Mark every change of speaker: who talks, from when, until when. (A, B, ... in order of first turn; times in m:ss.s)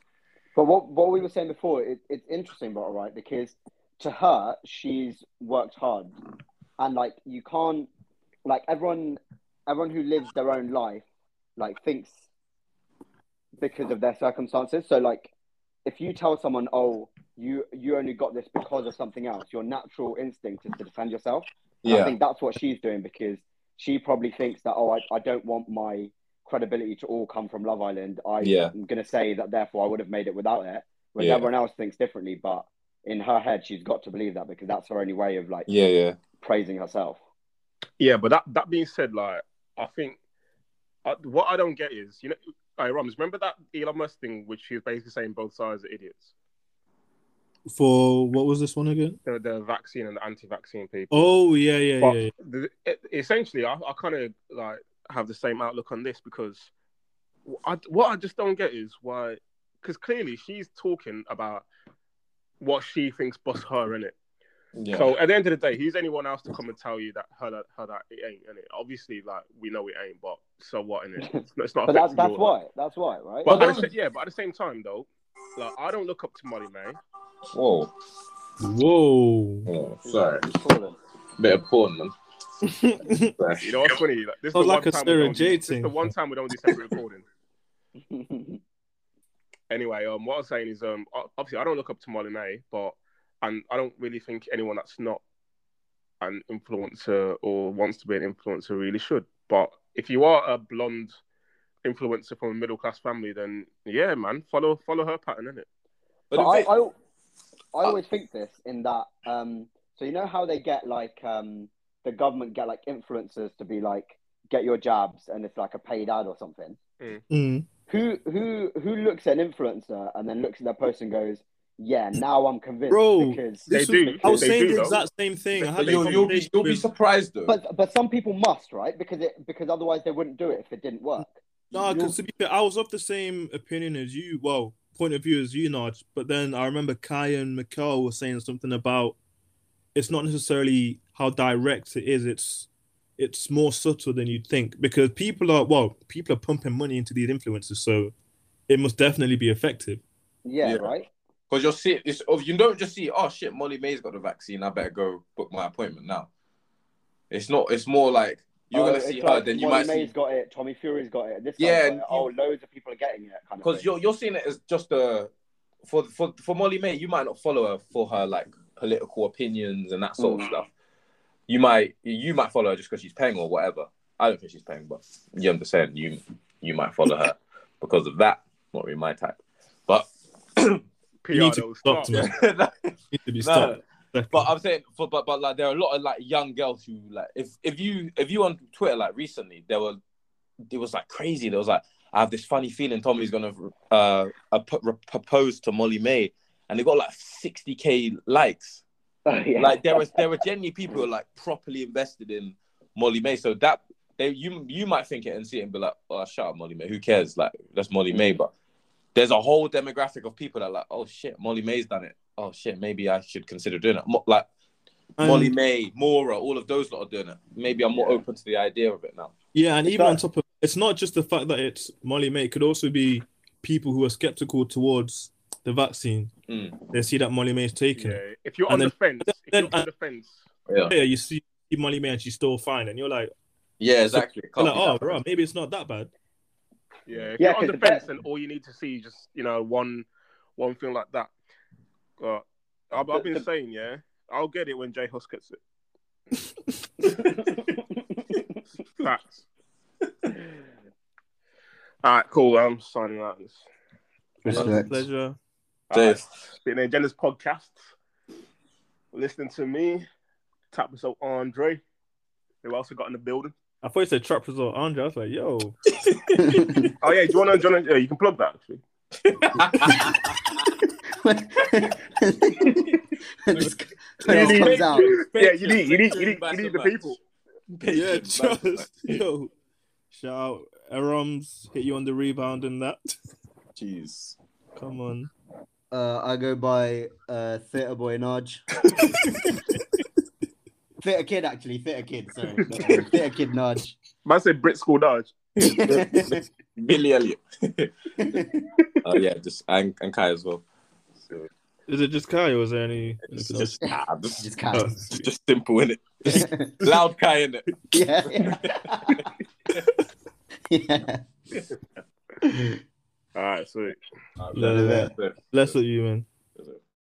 0:00.5-0:06.2 A
0:06.8-0:07.9 A
0:08.4-0:11.0 A
0:11.6-0:12.2 A
0:13.6-0:15.3 A
0:15.8-0:35.7 A
0:21.8-0:22.1 B
0:28.4-0:28.7 B
0:31.2-0:31.5 B
0:35.7-0:36.2 B
0:36.4-0:37.2 A
0:38.0-0:40.2 C
0:41.0-0:46.3 C
0:47.7-0:49.2 D
0:49.2-0:51.1 C
0:51.1-0:52.3 D
0:52.0-0:56.7 C
0:57.5-1:01.6 C
1:02.6-1:04.1 C
1:04.8-1:05.1 B
1:04.9-1:12.5 C
1:11.4-1:13.6 A
1:13.4-1:13.9 B
1:13.4-1:17.0 C
1:17.5-1:17.9 B
1:18.6-1:19.7 D
1:19.7-1:20.5 B
1:20.0-1:21.0 A
1:21.4-1:22.1 B
1:22.6-1:23.3 D
1:23.4-1:23.9 B
1:23.6-1:27.2 C
1:24.5-1:26.1 D
1:28.0-1:28.6 A
1:29.7-1:35.2 C
1:36.2-1:41.2 C
1:41.8-1:45.6 C
1:46.3-1:46.7 B
1:46.3-1:46.9 A
1:47.7-1:56.8 A
1:57.3-1:57.6 D
1:57.9-2:03.7 A
2:02.9-2:06.9 D
2:03.7-2:05.0 C
2:04.2-2:04.5 A
2:05.6-2:06.3 C
2:05.8-2:07.6 B
2:07.5-2:11.4 A
2:11.7-2:19.2 D
2:19.9-2:28.1 D
2:28.7-2:30.0 D
2:30.4-2:31.1 A
2:30.6-2:30.9 B
2:31.5-2:36.3 B
2:37.3-2:40.1 B
2:38.7-2:43.9 A
2:41.6-2:42.3 B
2:43.6-2:45.3 B
2:45.8-2:50.7 B
2:50.2-2:50.5 A
2:51.5-3:00.8 B
3:01.2-3:02.3 C
3:01.3-3:02.3 D
3:02.1-3:03.8 B
3:03.1-3:04.5 D
3:04.3-3:10.0 B
3:10.7-3:18.8 B
3:19.2-3:20.2 A
3:19.6-3:28.5 B
3:29.1-3:34.5 B
3:35.2-3:35.5 D
3:35.2-3:39.3 B
3:39.5-3:46.3 D
3:39.9-3:40.2 A
3:46.5-3:46.9 B
3:46.9-3:49.8 D
3:48.0-3:50.4 C
3:50.7-3:50.9 B
3:50.9-3:53.3 D
3:53.8-3:55.2 B
3:54.1-3:56.1 D
3:57.1-4:00.0 C
3:57.4-3:58.0 A
4:00.6-4:01.3 C
4:02.2-4:05.6 C
4:08.9-4:09.4 C
4:12.0-4:13.6 C
4:14.4-4:15.1 E
4:14.5-4:15.4 D
4:15.9-4:17.9 C
4:15.9-4:16.3 B
4:19.1-4:20.0 C
4:20.7-4:21.8 C
4:22.6-4:23.5 C
4:23.8-4:25.8 D
4:26.0-4:26.6 B
4:26.4-4:26.9 E
4:27.0-4:28.8 C
4:29.2-4:30.7 B
4:29.8-4:30.3 E
4:31.2-4:35.2 E
4:32.7-4:33.0 B
4:33.5-4:37.1 B
4:34.3-4:37.2 C
4:37.8-4:39.2 B
4:37.9-4:39.5 D
4:40.1-4:43.1 D
4:43.8-4:44.4 B
4:44.8-4:45.3 D
4:45.9-4:49.0 E
4:51.0-4:53.9 E
4:52.6-4:53.0 C
4:54.2-4:55.3 C
4:55.6-4:56.4 E
4:55.6-4:57.9 B
4:58.2-4:58.6 E
4:59.0-5:00.6 B
5:01.1-5:01.5 B
5:01.9-5:03.9 D
5:03.3-5:04.5 B
5:04.4-5:05.2 E
5:04.7-5:05.2 D
5:05.1-5:07.6 B
5:06.3-5:06.8 E
5:07.9-5:09.2 E
5:08.3-5:09.8 B
5:10.7-5:11.6 E
5:13.3-5:14.0 C
5:14.4-5:15.8 B
5:14.5-5:16.3 D
5:14.6-5:15.1 E
5:16.5-5:16.8 B